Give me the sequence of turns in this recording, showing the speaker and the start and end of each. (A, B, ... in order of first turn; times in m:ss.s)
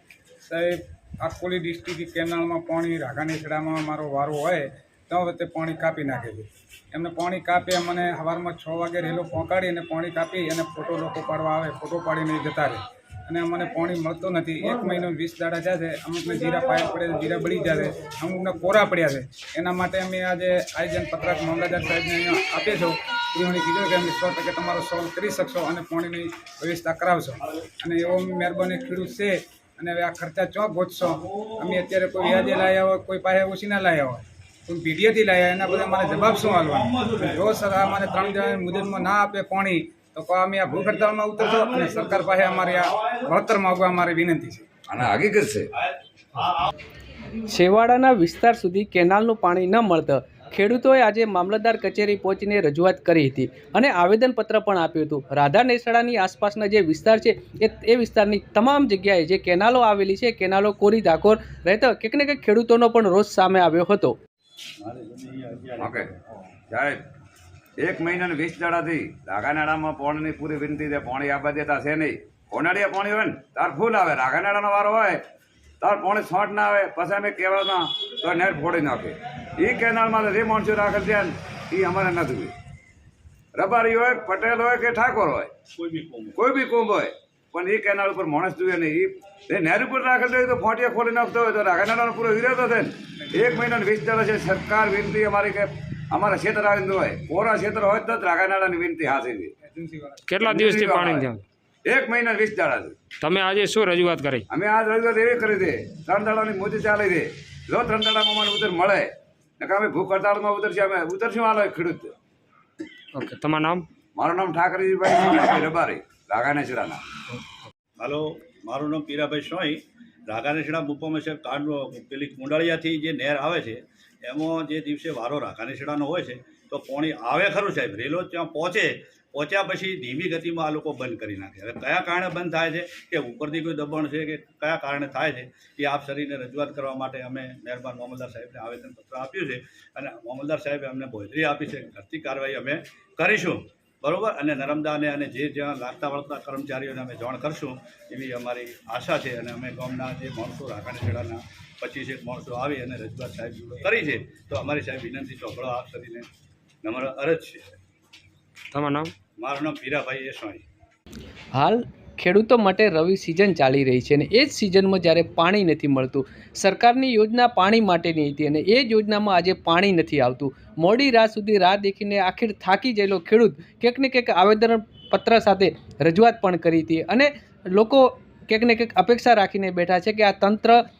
0:00.4-0:44.6 A
0:44.9-0:45.7 B
0:47.4-1:04.2 C
1:04.8-1:06.0 D
1:05.8-1:06.1 B
1:06.7-1:07.0 B
1:07.8-1:15.2 B
1:15.8-1:22.5 B
1:23.5-1:25.5 B
1:25.8-1:26.4 D
1:26.3-1:39.5 B
1:39.6-1:40.3 A
1:40.3-1:41.4 E
1:40.4-1:41.3 B
1:41.8-1:43.0 B
1:43.2-1:44.4 E
1:44.5-1:49.1 B
1:49.6-1:52.1 B
1:53.1-1:53.8 E
1:54.1-1:57.0 B
1:58.0-2:36.3 D
2:36.8-2:37.7 D
2:38.7-2:39.1 E
2:39.4-2:40.6 D
2:41.5-3:00.8 C